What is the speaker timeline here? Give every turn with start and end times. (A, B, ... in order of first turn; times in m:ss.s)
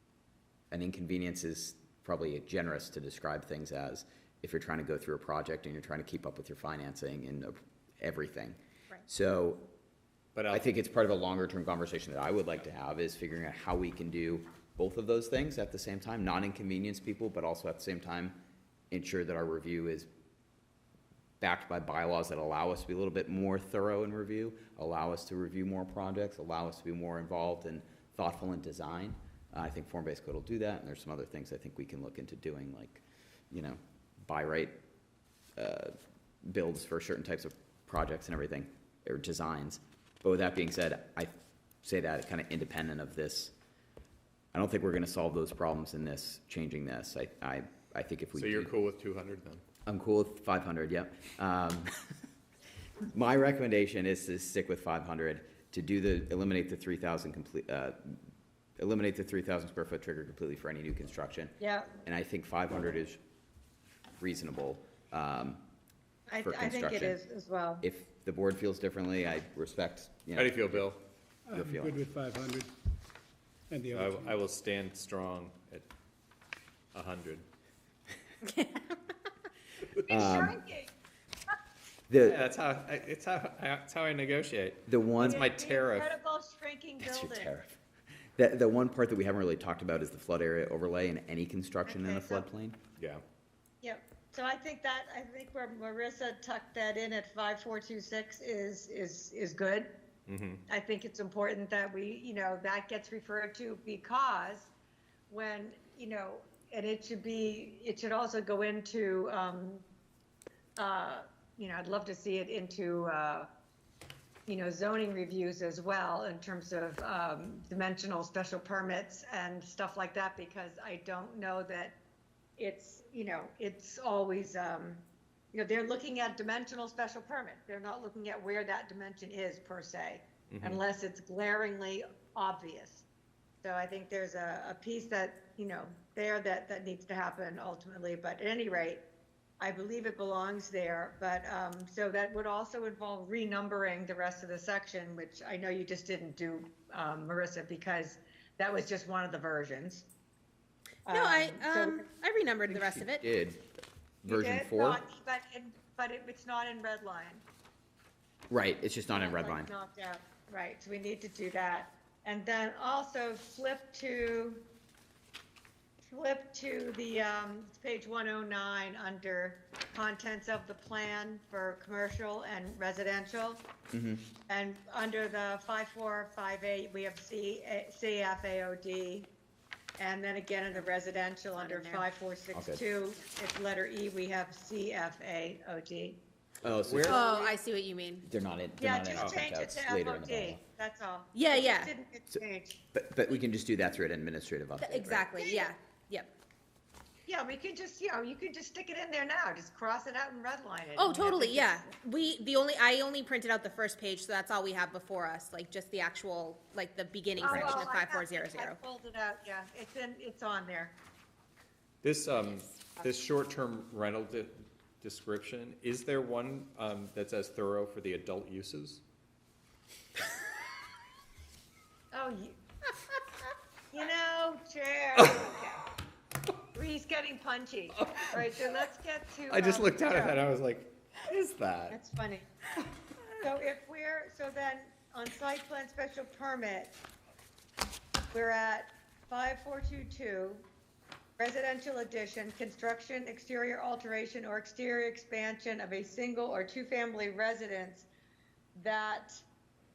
0:00.7-0:08.6 A
0:09.1-0:09.7 A
0:10.4-0:10.7 B
0:10.5-0:18.4 A
0:18.9-0:20.1 A
0:21.4-0:34.8 A
0:35.6-0:43.5 A
0:44.5-0:48.7 A
0:48.4-0:49.6 B
0:49.9-0:52.0 A
0:53.1-0:58.2 A
0:58.8-1:01.5 A
1:01.6-1:01.9 C
1:02.0-1:03.2 A
1:04.2-1:05.6 A
1:06.3-1:07.8 C
1:06.4-1:07.2 A
1:07.8-1:10.9 A
1:10.4-1:11.0 B
1:11.5-1:12.7 D
1:11.5-1:12.0 A
1:13.7-1:14.4 D
1:14.0-1:15.9 B
1:16.9-1:17.4 B
1:18.4-1:19.1 E
1:20.1-1:20.6 A
1:20.1-1:20.9 C
1:22.1-1:22.4 A
1:22.2-1:26.2 B
1:24.9-1:25.5 A
1:25.2-1:27.5 C
1:27.0-1:27.8 A
1:28.4-1:32.8 A
1:31.8-1:32.5 C
1:33.0-1:33.2 B
1:33.8-1:39.9 C
1:40.3-1:40.6 B
1:40.7-1:44.7 C
1:45.3-1:49.8 C
1:50.8-1:53.5 C
1:54.5-2:02.0 C
2:02.6-2:13.1 C
2:10.5-2:10.8 B
2:13.6-2:19.0 C
2:19.6-2:30.1 C
2:31.1-2:32.1 C
2:31.1-2:33.2 E
2:32.7-2:33.6 A
2:34.2-2:35.0 A
2:34.2-2:37.4 C
2:38.5-2:39.7 A
2:39.1-2:44.6 C
2:46.0-2:53.6 C
2:53.9-2:54.2 A
2:54.5-2:59.3 C
3:00.0-3:06.2 C
3:01.6-3:02.1 E
3:02.5-3:02.8 A
3:06.6-3:07.2 A
3:06.7-3:07.2 B
3:07.1-3:07.6 C
3:07.1-3:08.3 E
3:08.2-3:10.6 A
3:08.8-3:12.8 C
3:11.4-3:11.9 E
3:12.9-3:15.3 A
3:14.8-3:16.3 E
3:17.3-3:21.9 C
3:21.0-3:28.8 E
3:27.4-3:31.0 C
3:27.4-3:27.9 A
3:32.0-3:39.0 B
3:42.1-3:42.6 C
3:43.9-3:45.8 C
3:46.7-3:50.4 C
3:48.0-3:48.8 B
3:49.5-3:52.0 B
3:51.9-3:52.5 C
3:53.4-3:57.0 C
3:58.3-4:00.7 C
4:01.4-4:08.1 C
4:08.8-4:09.4 C